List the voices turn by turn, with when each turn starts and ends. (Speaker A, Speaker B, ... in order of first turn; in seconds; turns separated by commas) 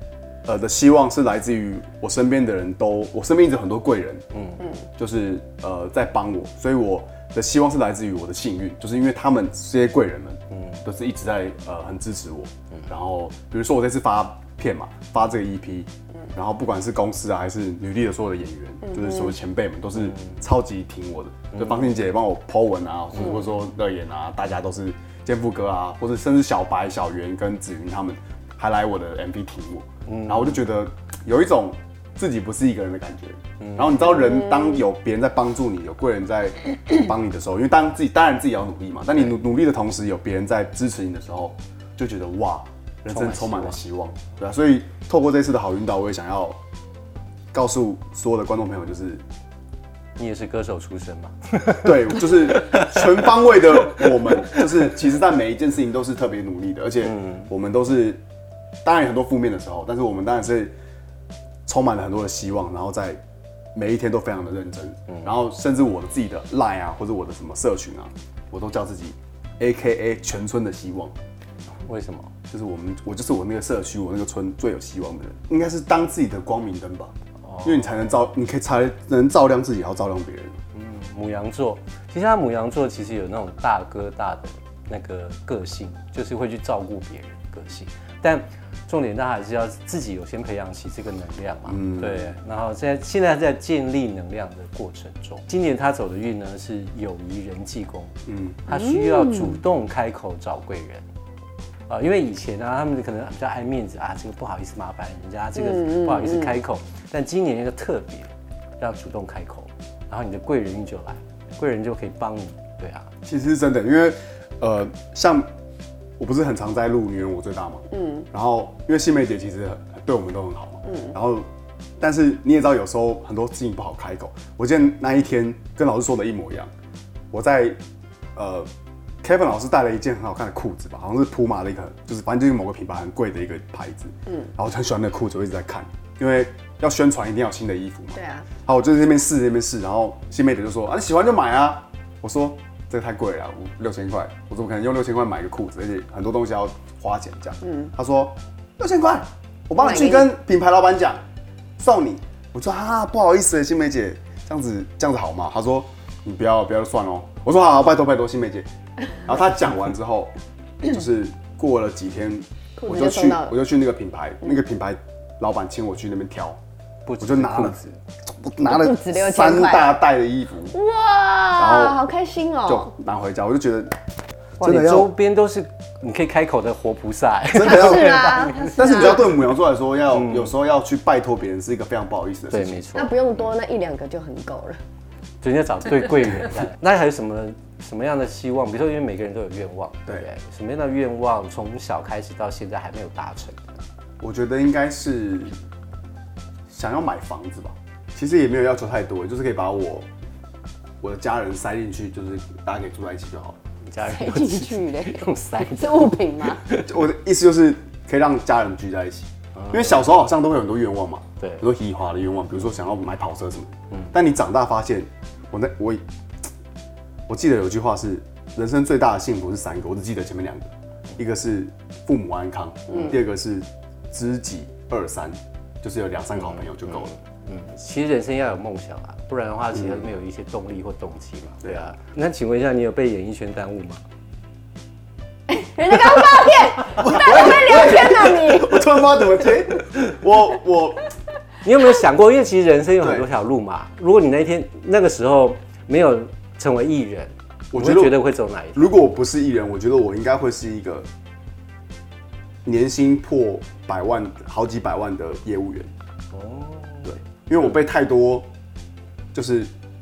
Speaker A: 0.4-4.2, Speaker B: 4.3-4.6, Speaker A: 5.0-46.6, Speaker B: 10.5-10.8, Speaker C: 18.8-19.3, Speaker B: 21.5-21.9, Speaker B: 30.1-30.6, Speaker B: 33.6-34.1, Speaker C: 34.2-34.8, Speaker B: 43.1-43.8, Speaker A: 47.5-49.2, Speaker B: 50.2-53.2, Speaker A: 51.8-58.2, Speaker B: 53.9-54.6, Speaker B: 57.0-57.5, Speaker A: 58.8-60.7, Speaker A: 61.6-63.2, Speaker A: 63.7-71.1, Speaker B: 71.8-72.3, Speaker A: 72.5-77.1, Speaker B: 77.5-77.9, Speaker A: 77.6-80.6, Speaker B: 80.7-98.1, Speaker A: 91.7-92.3, Speaker A: 98.3-98.6, Speaker B: 98.7-101.0, Speaker C: 98.7-99.6, Speaker B: 101.9-113.1, Speaker C: 105.5-106.5, Speaker A: 113.2-115.5, Speaker A: 116.2-121.5, Speaker C: 117.9-118.2, Speaker C: 120.8-121.1, Speaker A: 122.0-126.7, Speaker A: 127.3-127.8, Speaker A: 128.3-128.7, Speaker A: 129.2-151.2, Speaker C: 138.1-138.5, Speaker C: 147.6-147.9, Speaker C: 149.8-150.3, Speaker A: 151.8-158.7, Speaker A: 159.2-166.6, Speaker C: 162.8-163.6, Speaker B: 167.1-168.0, Speaker A: 167.2-167.8, Speaker A: 168.4-170.7, Speaker C: 168.6-170.0, Speaker C: 170.7-172.9, Speaker A: 171.6-172.0, Speaker A: 172.7-173.9, Speaker A: 174.6-175.1, Speaker B: 174.6-179.2, Speaker A: 177.5-182.8, Speaker C: 177.6-179.3, Speaker B: 180.1-180.5, Speaker B: 182.5-183.2, Speaker C: 182.9-184.8, Speaker B: 185.4-193.7, Speaker A: 194.2-195.5, Speaker A: 196.7-200.1, Speaker A: 201.0-203.6, Speaker B: 203.8-206.9, Speaker C: 204.0-206.6, Speaker A: 206.8-216.0, Speaker B: 209.6-210.0, Speaker A: 217.3-227.1, Speaker B: 226.9-234.0, Speaker A: 229.8-230.0, Speaker C: 235.5-238.8, Speaker A: 236.9-241.1, Speaker B: 241.6-248.9, Speaker A: 243.0-243.2, Speaker A: 247.7-248.2, Speaker A: 248.7-251.1, Speaker A: 252.6-255.9, Speaker B: 256.3-257.1, Speaker A: 257.0-258.5, Speaker A: 259.3-259.7